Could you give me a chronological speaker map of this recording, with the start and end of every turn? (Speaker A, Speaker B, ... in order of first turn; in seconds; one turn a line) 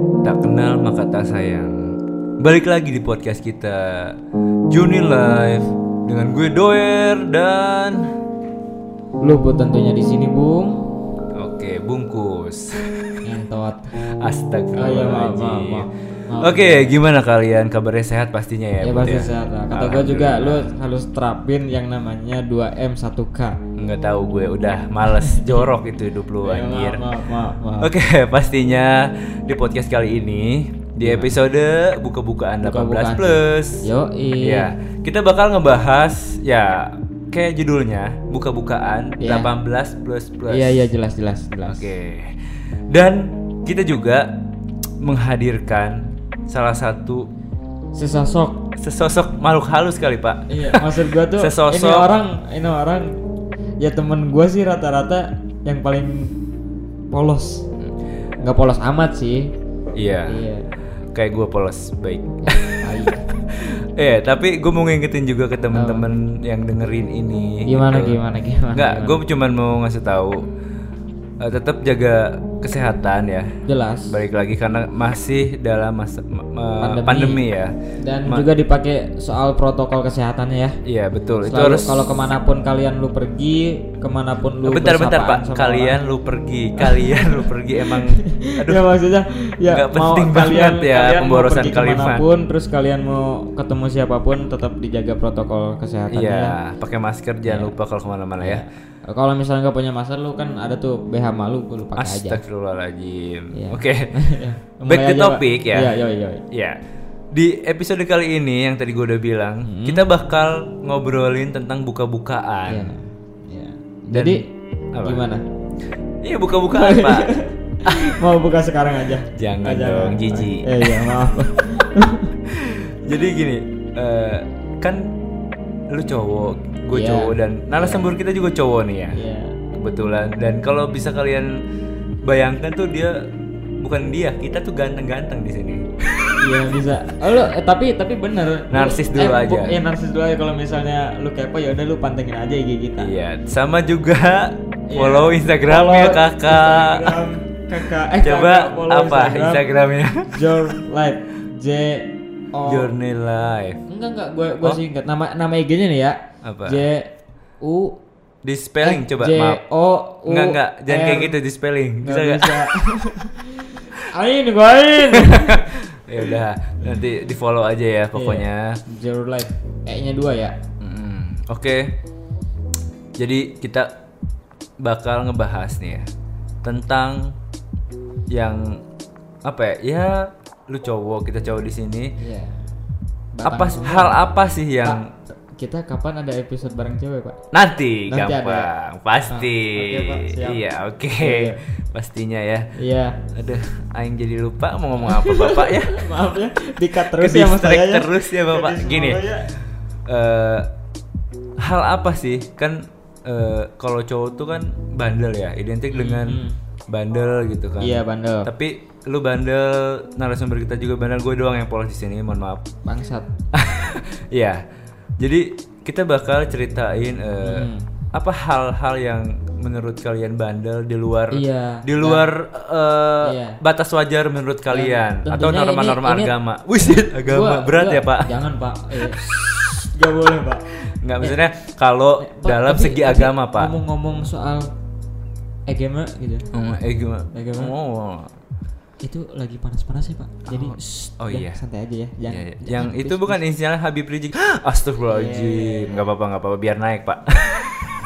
Speaker A: 0.2-1.8
Speaker A: 2.4-4.2
Speaker A: 4.7-8.1
Speaker B: 9.2-10.9
Speaker A: 11.3-13.2
Speaker B: 13.2-13.9
Speaker A: 14.0-20.7
Speaker B: 14.7-16.9
Speaker B: 18.8-23.6
Speaker A: 23.7-27.0
Speaker B: 25.2-25.7
Speaker B: 26.4-27.9
Speaker A: 27.8-33.9
Speaker B: 31.0-31.4
Speaker B: 32.6-34.7
Speaker A: 34.4-40.7
Speaker B: 39.2-39.5
Speaker B: 40.5-41.9
Speaker A: 41.6-42.4
Speaker A: 42.9-44.4
Speaker A: 45.0-47.3
Speaker B: 47.9-48.6
Speaker A: 48.8-52.1
Speaker B: 50.5-53.2
Speaker B: 53.8-56.5
Speaker B: 57.1-57.7
Speaker B: 58.4-59.5
Speaker A: 59.9-68.2
Speaker B: 60.3-60.7
Speaker B: 62.4-63.2
Speaker B: 65.7-66.1
Speaker B: 67.7-69.2
Speaker A: 68.7-70.4
Speaker A: 71.4-73.5
Speaker B: 73.7-74.1
Speaker A: 74.1-77.7
Speaker B: 76.8-77.4
Speaker B: 78.0-80.8
Speaker A: 80.8-82.2
Speaker B: 81.4-86.0
Speaker A: 84.6-88.8
Speaker B: 86.8-96.5
Speaker A: 89.7-92.2
Speaker A: 96.1-98.6
Speaker B: 97.4-97.7
Speaker B: 98.4-102.4
Speaker A: 102.0-104.3
Speaker B: 103.5-106.4
Speaker A: 104.8-105.9
Speaker A: 106.5-106.8
Speaker A: 107.3-113.0
Speaker B: 109.6-110.0
Speaker B: 112.7-114.5
Speaker A: 114.1-115.2
Speaker B: 115.0-115.4
Speaker A: 116.2-118.2
Speaker B: 116.7-122.3
Speaker A: 119.3-121.2
Speaker A: 122.5-125.1
Speaker A: 125.9-129.2
Speaker B: 126.9-128.1
Speaker B: 129.1-129.6
Speaker A: 129.7-131.6
Speaker A: 132.2-133.2
Speaker A: 133.8-136.4
Speaker B: 136.4-143.1
Speaker A: 138.7-139.8
Speaker A: 143.0-147.2
Speaker B: 144.9-149.6
Speaker A: 148.2-150.5
Speaker B: 150.2-152.9
Speaker A: 152.6-153.8
Speaker B: 153.9-158.0
Speaker A: 156.4-156.8
Speaker A: 158.4-159.6
Speaker B: 158.8-161.4
Speaker A: 160.2-162.8
Speaker B: 162.0-167.0
Speaker A: 165.1-168.8
Speaker B: 168.1-170.6
Speaker A: 170.8-171.9
Speaker A: 173.2-173.9
Speaker A: 174.8-176.1
Speaker A: 176.6-177.3
Speaker A: 178.3-178.8
Speaker A: 179.4-182.2
Speaker B: 182.2-182.7
Speaker B: 183.3-184.2
Speaker A: 183.4-185.1
Speaker B: 184.8-187.4
Speaker A: 187.5-192.7
Speaker B: 188.1-188.7
Speaker B: 189.3-190.6
Speaker B: 191.2-191.6
Speaker B: 192.7-193.2
Speaker A: 193.3-196.1
Speaker B: 195.0-199.5
Speaker A: 196.9-199.2
Speaker A: 200.1-200.7
Speaker A: 201.6-212.7
Speaker B: 205.9-206.6
Speaker B: 207.8-208.5
Speaker B: 212.8-213.3
Speaker A: 213.5-214.6
Speaker A: 215.2-229.7
Speaker B: 217.4-217.9
Speaker B: 221.3-222.3
Speaker B: 223.2-223.6
Speaker B: 224.7-229.3
Speaker B: 229.8-230.7
Speaker A: 230.9-233.7
Speaker B: 232.2-234.7
Speaker B: 235.7-236.5
Speaker A: 236.5-238.3
Speaker B: 237.3-237.7
Speaker B: 239.0-243.4
Speaker A: 240.5-241.6
Speaker A: 242.3-248.0
Speaker B: 245.0-246.1